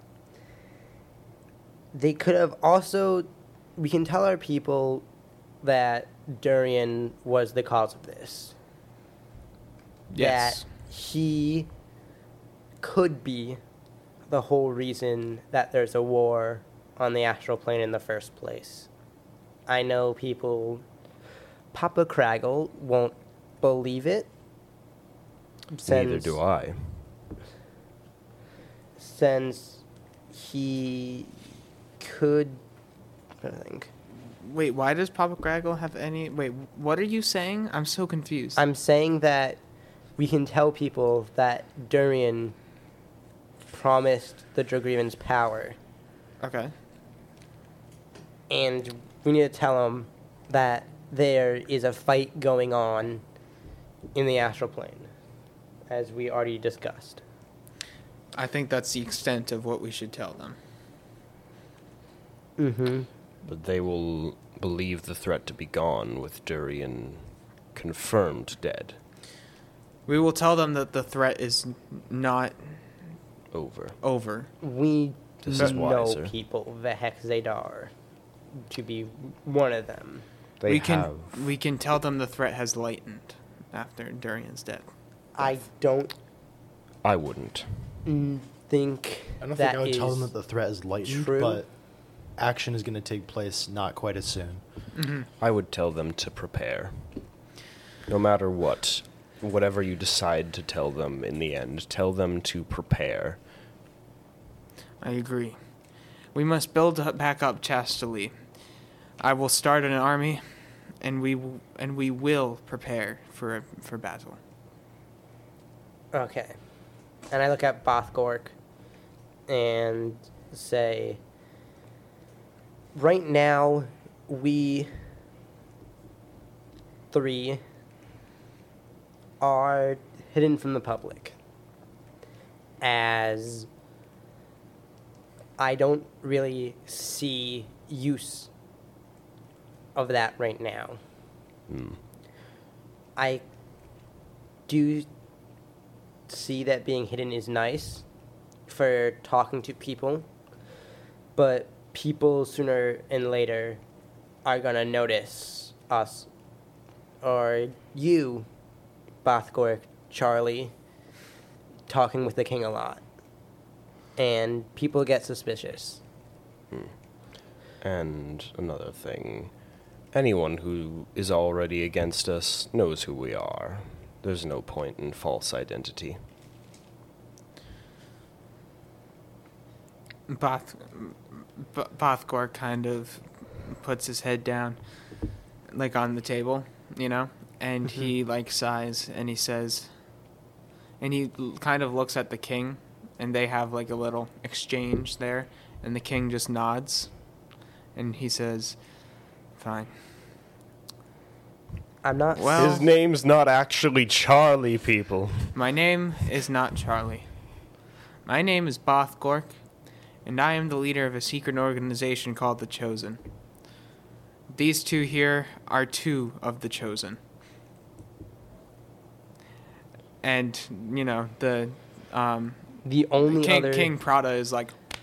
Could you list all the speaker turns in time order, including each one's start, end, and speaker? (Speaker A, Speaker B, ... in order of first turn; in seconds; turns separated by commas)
Speaker A: 1.9-5.0, Speaker A: 5.6-8.5, Speaker B: 10.1-10.6, Speaker A: 10.2-11.7, Speaker A: 12.8-13.6, Speaker A: 14.3-18.9, Speaker A: 19.7-20.8, Speaker A: 21.7-24.3, Speaker A: 25.7-26.4, Speaker C: 25.9-27.0, Speaker A: 29.0-29.8, Speaker A: 30.3-31.3, Speaker A: 32.0-32.6, Speaker A: 33.4-33.9, Speaker B: 34.4-38.6, Speaker A: 38.6-39.6, Speaker A: 40.2-42.5, Speaker A: 43.7-45.8, Speaker B: 46.4-46.7, Speaker A: 48.5-53.2, Speaker A: 54.1-55.1, Speaker A: 55.9-57.2, Speaker B: 58.3-60.6, Speaker A: 62.6-63.1, Speaker C: 63.4-67.2, Speaker C: 67.7-69.0, Speaker B: 70.1-72.8, Speaker C: 73.5-74.0, Speaker B: 74.0-74.5, Speaker A: 74.6-77.9, Speaker C: 75.4-76.3, Speaker A: 78.7-80.2, Speaker C: 80.6-81.3, Speaker B: 80.7-84.9, Speaker A: 85.3-86.1, Speaker C: 87.0-87.7, Speaker A: 88.0-90.3, Speaker D: 89.4-91.7, Speaker A: 91.0-91.6, Speaker D: 92.4-94.6, Speaker B: 95.0-95.3, Speaker C: 95.4-97.0, Speaker C: 98.1-103.4, Speaker B: 105.0-105.5, Speaker B: 106.3-108.3, Speaker B: 109.2-110.4, Speaker B: 111.0-114.4, Speaker A: 116.1-116.5, Speaker A: 117.3-118.5, Speaker A: 119.5-121.2, Speaker A: 122.9-124.9, Speaker A: 127.1-127.6, Speaker A: 129.4-131.3, Speaker A: 132.8-133.7, Speaker A: 135.6-138.5, Speaker A: 139.9-141.0, Speaker C: 141.7-142.0, Speaker A: 143.2-143.4, Speaker A: 144.7-145.1, Speaker A: 146.3-148.0, Speaker A: 148.7-150.2, Speaker A: 151.3-153.8, Speaker A: 154.4-156.3, Speaker A: 157.2-158.5, Speaker A: 159.2-160.7, Speaker A: 161.9-163.0, Speaker A: 164.2-166.0, Speaker C: 167.8-169.5, Speaker C: 170.1-176.2, Speaker B: 180.3-184.8, Speaker B: 185.7-189.9, Speaker B: 191.0-197.1, Speaker B: 197.9-198.8, Speaker B: 199.6-199.9, Speaker A: 202.0-202.8, Speaker B: 202.3-202.8, Speaker C: 202.5-205.5, Speaker B: 205.5-207.3, Speaker B: 208.2-209.5, Speaker B: 210.2-213.2, Speaker B: 214.5-217.2, Speaker B: 220.2-222.6, Speaker A: 222.8-223.9, Speaker B: 223.2-224.7